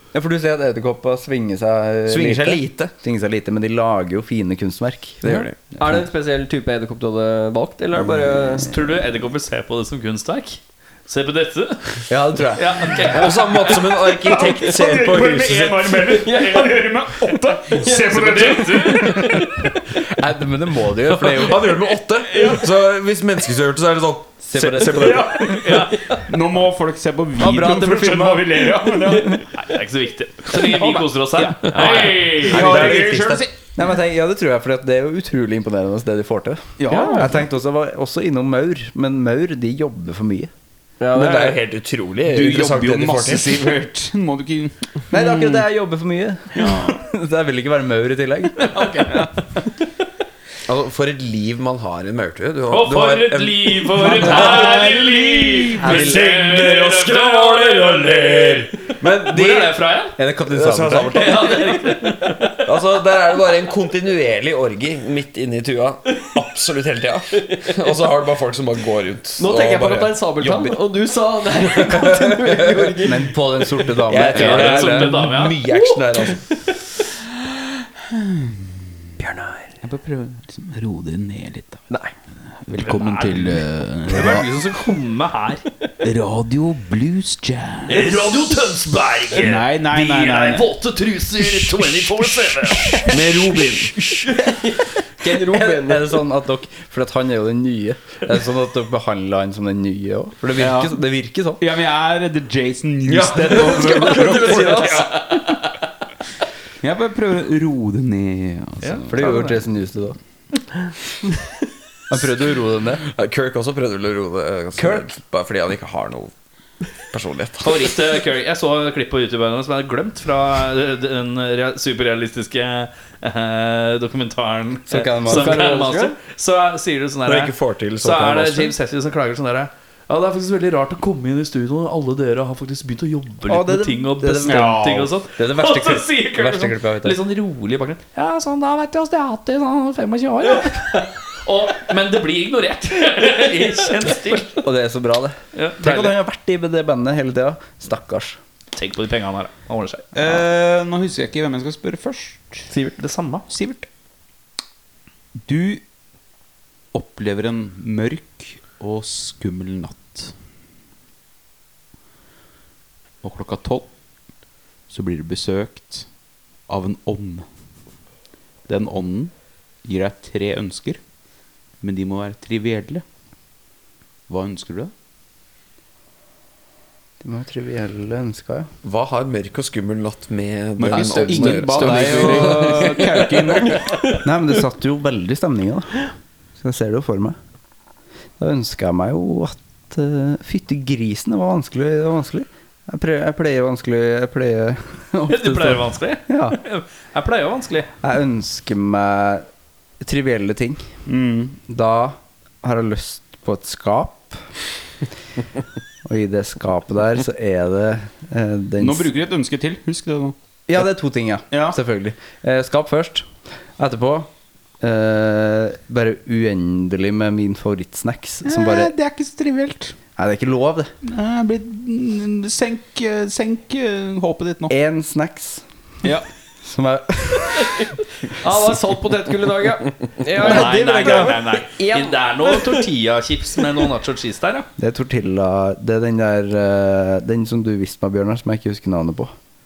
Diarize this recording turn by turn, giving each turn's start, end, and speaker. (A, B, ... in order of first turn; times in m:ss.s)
0:00.1-0:05.5 A
0:02.1-0:02.9 B
0:05.2-0:05.6 B
0:05.3-0:08.7 C
0:08.7-0:13.8 D
0:12.1-0:13.0 A
0:13.1-0:16.0 B
0:14.2-0:19.4 E
0:16.2-0:16.8 C
0:17.8-0:19.5 C
0:17.8-0:19.4 D
0:20.1-0:21.9 A
0:21.2-0:25.4 B
0:24.5-0:25.6 A
0:24.9-0:26.2 D
0:25.5-0:29.4 E
0:27.4-0:29.2 A
0:29.6-0:33.0 D
0:30.6-0:33.6 E
0:31.7-0:33.5 B
0:31.7-0:32.2 C
0:33.8-0:40.5 A
0:36.8-0:37.4 E
0:36.9-0:37.3 C
0:41.0-0:41.6 C
0:41.1-0:43.6 B
0:42.3-0:44.8 E
0:45.1-0:49.1 A
0:46.6-0:47.0 E
0:48.7-0:49.3 E
0:50.7-0:54.6 B
0:52.7-1:00.2 D
0:54.0-0:56.2 E
0:55.8-0:56.2 A
0:55.9-1:01.7 B
1:00.2-1:01.4 A
1:01.1-1:02.5 D
1:02.6-1:10.8 B
1:07.4-1:07.9 C
1:09.4-1:13.8 C
1:11.8-1:12.8 B
1:13.0-1:15.2 A
1:14.1-1:16.4 B
1:14.3-1:15.6 D
1:15.7-1:16.6 C
1:17.8-1:19.0 E
1:19.2-1:19.7 C
1:19.8-1:21.9 E
1:21.9-1:22.2 C
1:22.6-1:24.5 E
1:22.8-1:25.6 D
1:26.0-1:28.2 E
1:27.9-1:33.0 D
1:29.4-1:30.7 E
1:33.1-1:34.0 B
1:33.9-1:36.2 C
1:35.4-1:41.6 A
1:40.6-1:41.0 E
1:41.6-1:45.3 E
1:43.1-1:45.1 B
1:46.8-1:49.3 E
1:48.8-1:49.6 D
1:49.1-1:50.2 A
1:52.1-1:53.0 A
1:53.0-1:56.3 B
1:54.8-1:55.1 A
1:57.1-1:58.2 B
1:57.6-2:24.6 D
2:04.9-2:05.8 A
2:05.2-2:06.2 C
2:07.2-2:08.8 B
2:13.5-2:17.2 A
2:14.4-2:15.1 E
2:24.6-2:28.4 A
2:25.6-2:26.2 D
2:28.7-2:30.2 D
2:30.2-2:32.7 E
2:32.7-2:33.0 C
2:33.0-2:33.4 D
2:33.5-2:33.9 E
2:35.4-2:35.8 E
2:36.9-2:40.3 E
2:43.2-2:43.9 E
2:44.9-2:46.1 E
2:46.7-2:47.5 E
2:48.7-2:49.3 E
2:49.8-2:51.0 E
2:51.8-2:53.0 E
2:54.3-2:54.9 E
2:57.2-2:58.7 A
2:58.8-3:02.9 B
3:00.8-3:04.0 E
3:00.9-3:02.6 A
3:01.0-3:03.0 C
3:04.2-3:06.1 A
3:06.6-3:07.4 A
3:08.4-3:16.6 A
3:15.3-3:17.9 D
3:18.0-3:19.4 A
3:20.0-3:20.8 A
3:21.1-3:21.6 E
3:21.7-3:24.4 A
3:26.0-3:29.1 A
3:28.8-3:30.4 E
3:30.7-3:34.3 A
3:31.5-3:31.8 E
3:34.8-3:38.9 A
3:38.4-3:40.0 E
3:40.2-3:40.9 A
3:41.0-3:44.7 E
3:44.7-3:45.6 A
3:46.6-3:47.8 A
3:48.4-3:52.8 C
3:50.4-3:54.7 D
3:54.8-3:59.3 A